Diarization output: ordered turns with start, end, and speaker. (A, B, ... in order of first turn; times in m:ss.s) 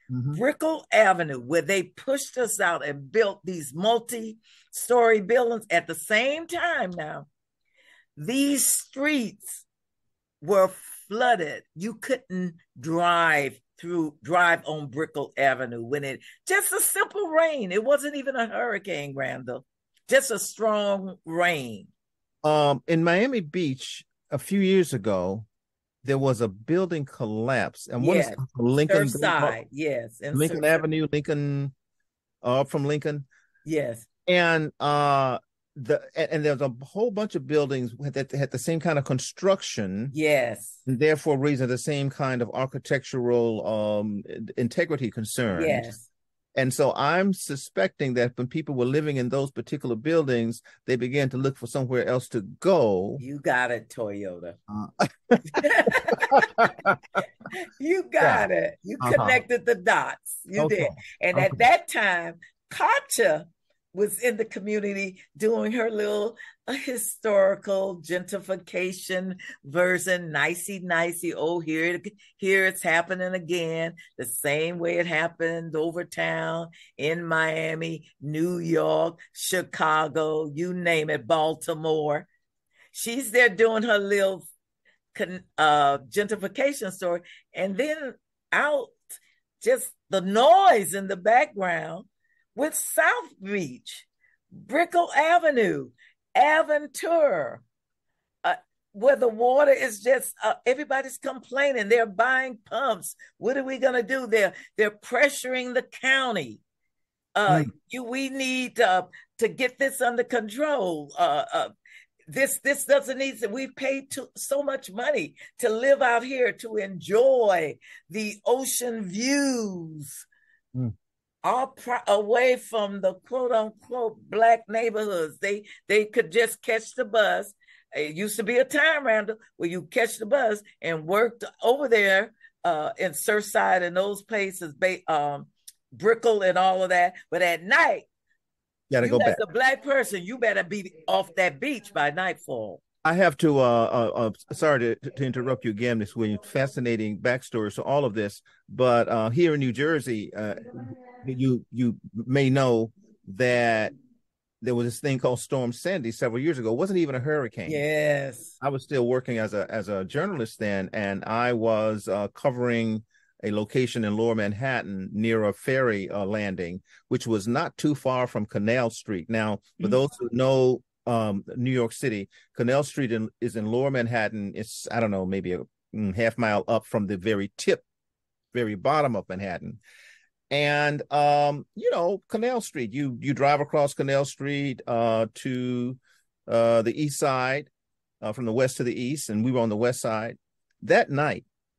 0:00.1-0:00.4 A
0:00.3-0:07.3 B
0:08.2-0:09.6 B
0:10.4-0:21.9 B
0:22.4-0:25.5 A
0:26.0-0:29.6 A
0:28.0-0:30.8 B
0:30.3-0:31.7 A
0:32.4-0:33.3 A
0:33.6-0:34.1 B
0:34.3-0:40.1 A
0:40.1-0:40.8 B
0:40.9-0:46.0 A
0:45.5-0:46.0 B
0:46.6-0:53.2 A
0:53.2-0:54.6 B
0:54.7-0:57.0 A
0:55.5-0:56.7 B
0:57.5-1:22.3 B
0:58.2-0:58.5 A
0:59.0-0:59.4 A
1:00.6-1:01.6 A
1:22.9-1:24.5 B
1:25.1-1:37.6 B
1:38.4-1:46.6 B
1:47.4-1:51.7 B
1:52.3-2:00.2 B
2:01.4-2:18.0 B
2:18.9-2:19.4 A
2:19.0-2:22.8 B
2:23.0-2:33.9 A
2:34.6-2:37.8 A
2:37.7-2:38.5 B
2:38.6-2:57.8 A
2:58.5-2:59.8 A
3:00.5-3:07.7 A
3:08.2-3:11.5 A